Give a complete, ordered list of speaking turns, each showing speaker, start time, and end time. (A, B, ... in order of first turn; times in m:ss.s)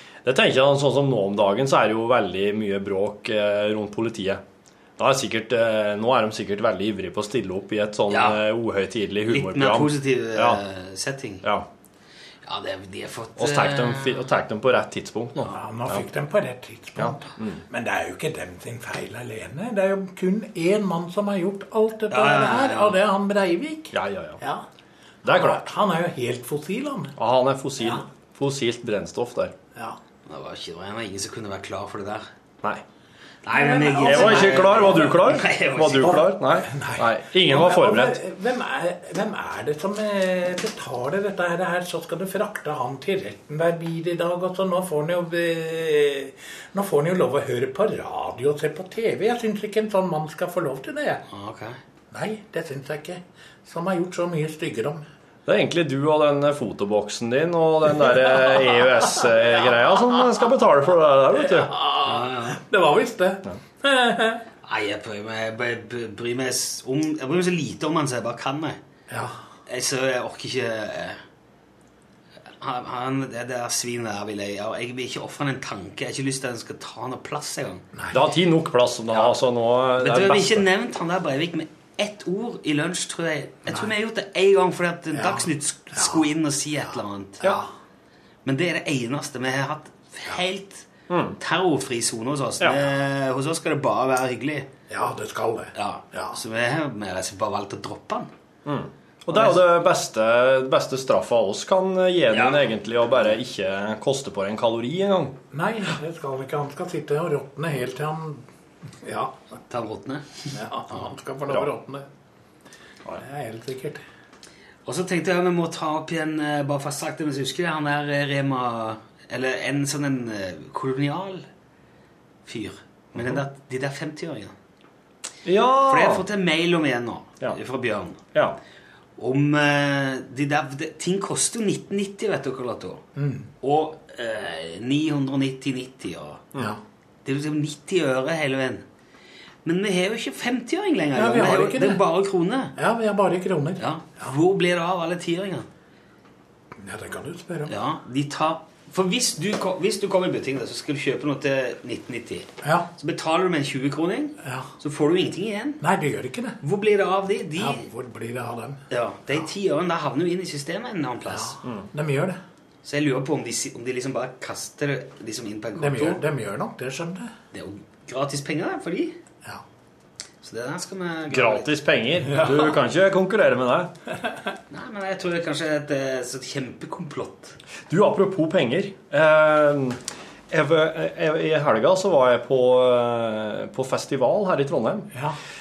0:00.2-0:04.4 A
0:05.0-0:10.6 A
0:08.1-0:08.4 B
0:09.3-0:11.4 B
0:12.4-0:14.2 B
0:13.4-0:16.1 A
0:15.4-0:24.6 C
0:17.0-0:17.6 A
0:22.1-0:23.0 B
0:23.9-0:24.4 A
0:25.2-0:27.1 C
0:25.2-0:25.7 A
0:27.2-0:29.5 A
0:30.2-0:32.3 B
0:33.4-0:36.2 B
0:33.5-0:35.2 C
0:34.0-0:38.2 A
0:36.0-0:51.2 C
0:51.3-0:51.8 B
0:52.1-0:55.0 C
0:55.4-1:01.7 A
1:01.4-1:04.4 C
1:02.0-1:02.6 B
1:04.6-1:08.8 B
1:09.1-1:09.4 C
1:09.7-1:11.2 B
1:12.6-1:17.8 B
1:17.9-1:18.2 C
1:18.1-1:20.6 A
1:20.0-1:27.4 B
1:25.1-1:26.2 C
1:27.4-1:27.7 C
1:28.4-1:30.9 B
1:31.1-1:31.4 A
1:31.4-1:34.7 B
1:34.9-1:36.4 C
1:35.7-1:38.3 B
1:38.6-1:45.4 A
1:42.3-1:42.6 B
1:45.5-1:48.4 C
1:49.0-1:49.4 C
1:49.7-1:51.0 B
1:50.5-1:52.0 C
1:53.2-1:54.0 C
1:54.8-2:01.4 B
2:02.4-2:04.5 B
2:05.4-2:06.2 A
2:05.9-2:08.2 B
2:09.2-2:13.0 B
2:13.2-2:13.5 C
2:13.6-2:16.4 B
2:17.2-2:18.8 B
2:19.6-2:22.7 B
2:21.1-2:22.0 C
2:22.8-2:24.3 C
2:23.8-2:25.7 B
2:26.8-2:27.8 C
2:27.7-2:35.8 B
2:32.6-2:32.9 C
2:34.4-2:34.7 C
2:35.8-2:36.6 C
2:36.6-2:37.8 B
2:37.6-2:38.8 C
2:38.9-2:41.6 B
2:41.3-2:42.4 C
2:42.8-2:46.2 B
2:45.7-2:47.3 C
2:47.5-2:49.2 B
2:50.4-2:51.7 B
2:51.3-2:53.9 A
2:52.3-2:52.7 C
2:54.7-2:57.6 B
2:57.9-3:05.1 A